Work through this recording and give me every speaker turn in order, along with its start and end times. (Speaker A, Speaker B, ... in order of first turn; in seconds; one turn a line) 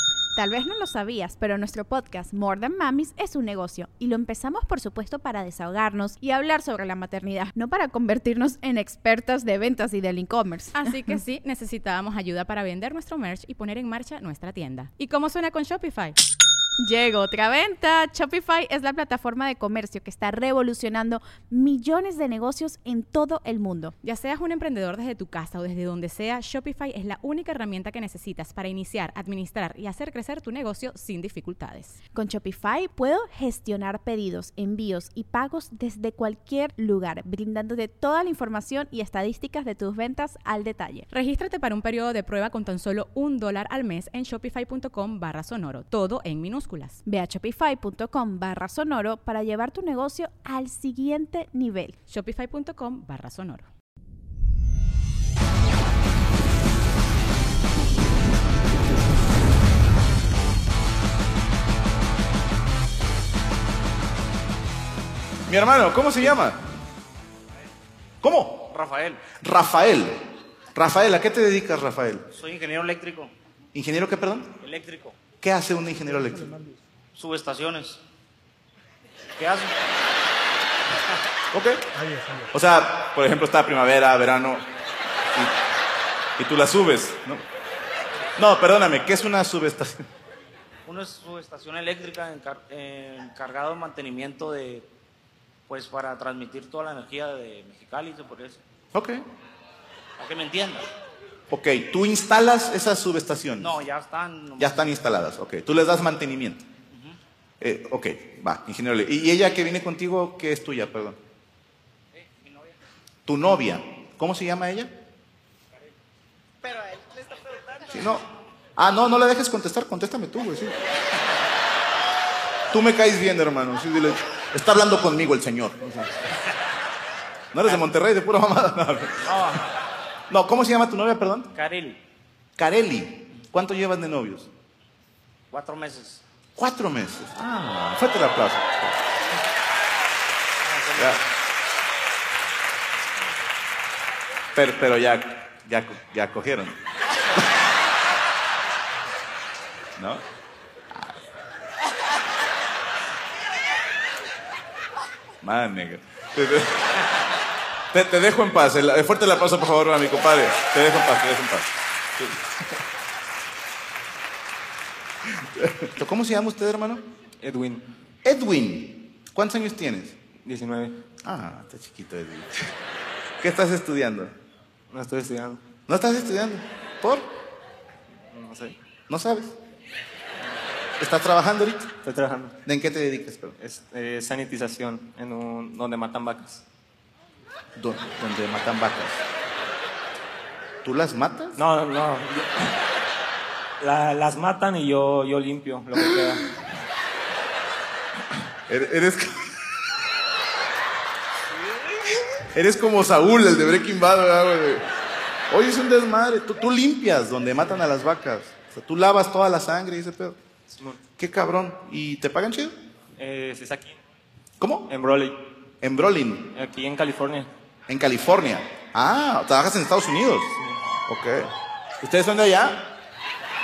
Speaker A: 0.4-11.2
Speaker B: 10.8-16.2
Speaker A: 16.8-23.9
Speaker B: 24.0-32.0
Speaker A: 32.1-41.1
Speaker B: 41.1-47.0
Speaker A: 47.1-52.0
Speaker B: 52.1-53.7
Speaker C: 65.5-66.6
Speaker C: 68.2-68.7
Speaker D: 68.7-69.3
Speaker C: 69.4-72.3
Speaker D: 72.3-73.3
Speaker C: 73.7-74.6
Speaker D: 74.6-75.2
Speaker C: 75.4-76.7
Speaker D: 77.1-78.0
Speaker D: 79.4-79.7
Speaker C: 81.5-81.8
Speaker C: 82.5-84.7
Speaker C: 86.4-87.4
Speaker C: 88.4-90.0
Speaker D: 90.9-94.9
Speaker D: 95.7-98.6
Speaker C: 98.9-99.2
Speaker D: 100.2-100.9
Speaker C: 101.5-103.8
Speaker D: 103.6-104.9
Speaker C: 104.6-106.7
Speaker D: 106.9-107.2
Speaker C: 107.6-111.2
Speaker D: 112.2-112.7
Speaker C: 113.3-114.9
Speaker D: 116.7-117.0
Speaker C: 117.9-120.8
Speaker C: 122.7-126.1
Speaker C: 127.5-129.4
Speaker D: 129.2-129.7
Speaker C: 130.3-131.5
Speaker D: 131.6-132.0
Speaker C: 132.6-134.5
Speaker D: 135.5-136.2
Speaker C: 136.6-139.0
Speaker D: 140.6-141.2
Speaker C: 144.5-146.8
Speaker C: 150.0-150.2
Speaker C: 155.4-157.1
Speaker C: 157.9-162.4
Speaker C: 165.3-167.0
Speaker E: 167.4-167.8
Speaker C: 168.2-170.2
Speaker E: 170.4-171.0
Speaker C: 171.2-172.7
Speaker C: 173.4-174.3
Speaker E: 174.9-175.6
Speaker C: 175.9-177.3
Speaker E: 178.3-178.8
Speaker C: 179.1-179.6
Speaker C: 181.0-181.9
Speaker E: 182.0-182.6
Speaker C: 182.7-183.6
Speaker E: 183.6-186.6
Speaker C: 187.8-189.2
Speaker C: 190.8-191.6
Speaker E: 191.6-192.8
Speaker E: 193.8-196.5
Speaker C: 198.7-199.6
Speaker C: 202.5-204.8
Speaker C: 205.5-210.4
Speaker E: 210.7-211.0
Speaker C: 211.2-212.8
Speaker E: 213.2-214.0
Speaker C: 214.6-214.9
Speaker E: 214.9-215.4
Speaker C: 215.8-216.5
Speaker E: 216.5-217.5
Speaker C: 217.9-220.5
Speaker C: 221.1-222.9